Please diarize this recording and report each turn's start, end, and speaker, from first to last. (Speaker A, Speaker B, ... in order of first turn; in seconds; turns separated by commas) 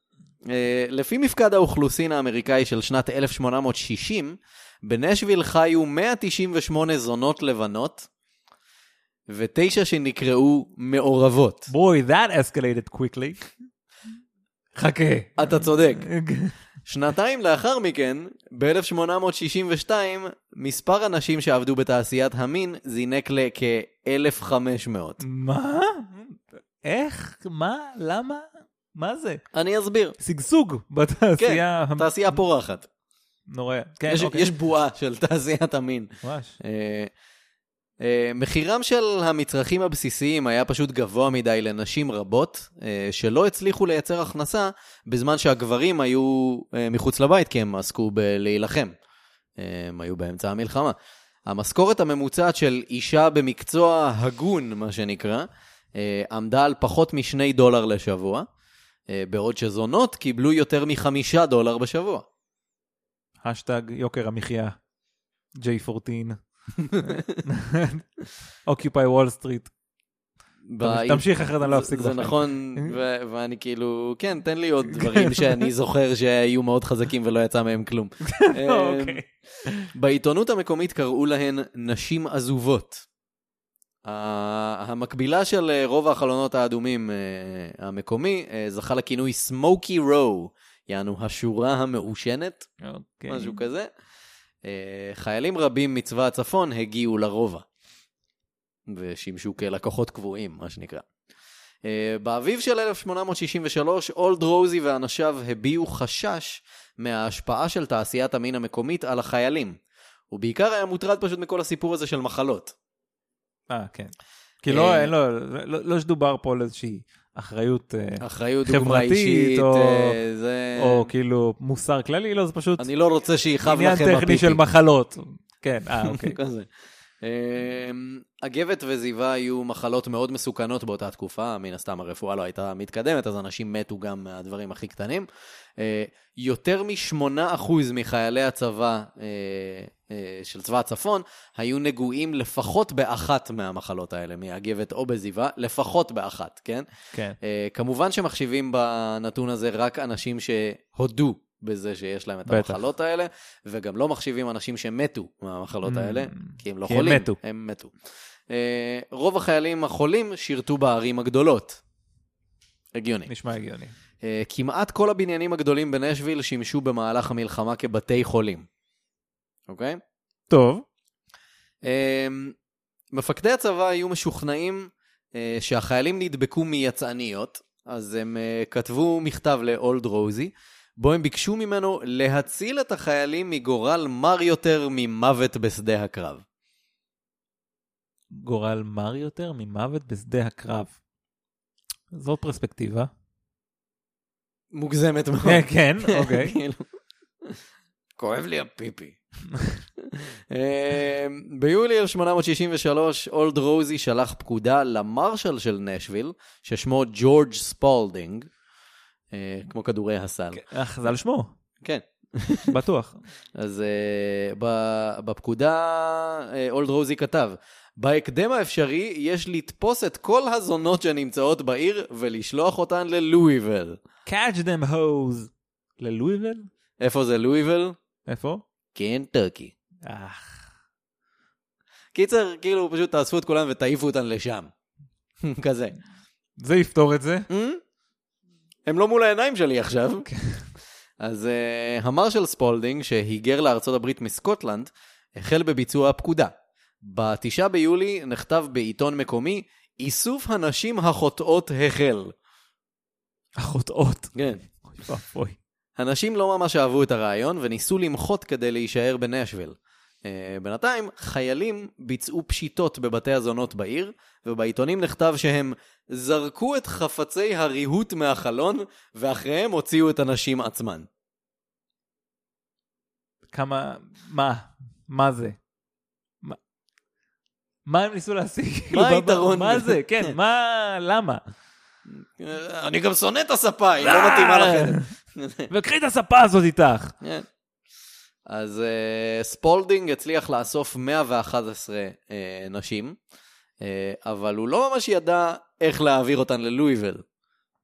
Speaker A: 0.5-8.1, Speaker A: 9.3-11.7, Speaker B: 11.7-13.5, Speaker B: 14.8-16.5, Speaker A: 15.4-16.1, Speaker A: 16.9-25.2, Speaker B: 25.2-29.4, Speaker A: 29.5-30.2, Speaker B: 30.2-32.1, Speaker A: 31.4-32.9, Speaker B: 33.5-34.5, Speaker A: 34.1-37.1, Speaker B: 36.2-36.6, Speaker A: 38.0-49.0, Speaker A: 49.6-51.0, Speaker A: 51.5-58.5, Speaker A: 59.1-62.2, Speaker B: 63.4-64.8, Speaker B: 65.6-66.4, Speaker A: 66.8-67.4, Speaker B: 67.0-68.0, Speaker B: 68.7-69.7, Speaker A: 70.7-79.2, Speaker B: 70.8-72.9, Speaker B: 74.9-75.7, Speaker B: 78.2-79.9, Speaker A: 79.9-83.0, Speaker A: 84.0-92.7, Speaker B: 92.8-93.6, Speaker A: 93.3-93.9, Speaker A: 94.6-97.7, Speaker A: 98.9-101.0, Speaker A: 101.8-109.8, Speaker A: 110.3-112.8, Speaker B: 113.7-120.2, Speaker A: 114.7-115.1, Speaker A: 118.2-121.1, Speaker B: 120.8-122.9, Speaker A: 122.8-124.6, Speaker B: 123.7-126.4, Speaker A: 126.0-126.7, Speaker A: 127.2-135.3, Speaker A: 135.8-146.9, Speaker A: 147.4-157.9, Speaker B: 152.5-152.8, Speaker B: 155.8-157.4, Speaker A: 158.5-161.8, Speaker A: 162.9-163.3, Speaker B: 163.3-163.9, Speaker A: 164.2-168.7, Speaker A: 169.7-170.0, Speaker B: 170.5-170.8, Speaker A: 171.8-172.6, Speaker A: 173.1-186.4, Speaker B: 188.3-190.9, Speaker B: 192.1-193.1, Speaker A: 194.7-196.8, Speaker B: 195.4-196.6, Speaker A: 198.2-199.2, Speaker A: 200.0-208.5, Speaker A: 209.3-210.6, Speaker B: 210.5-211.5, Speaker A: 211.8-212.8, Speaker B: 212.7-213.2, Speaker A: 213.6-224.0, Speaker B: 224.3-226.7, Speaker A: 227.0-228.0, Speaker B: 228.3-228.6, Speaker A: 228.9-229.7, Speaker B: 230.0-230.7, Speaker A: 232.1-234.7, Speaker A: 235.4-236.0, Speaker B: 236.6-237.5, Speaker A: 237.5-237.8, Speaker A: 238.9-240.3, Speaker B: 240.3-240.6, Speaker A: 241.2-252.3, Speaker B: 253.6-254.3, Speaker A: 254.3-254.6, Speaker B: 254.8-255.6, Speaker A: 256.0-271.1, Speaker B: 273.5-275.6, Speaker B: 277.9-281.4, Speaker A: 278.9-280.3, Speaker A: 282.1-285.7, Speaker B: 284.0-285.1, Speaker B: 285.7-287.1, Speaker A: 287.2-287.5, Speaker A: 288.5-293.2, Speaker A: 293.8-297.2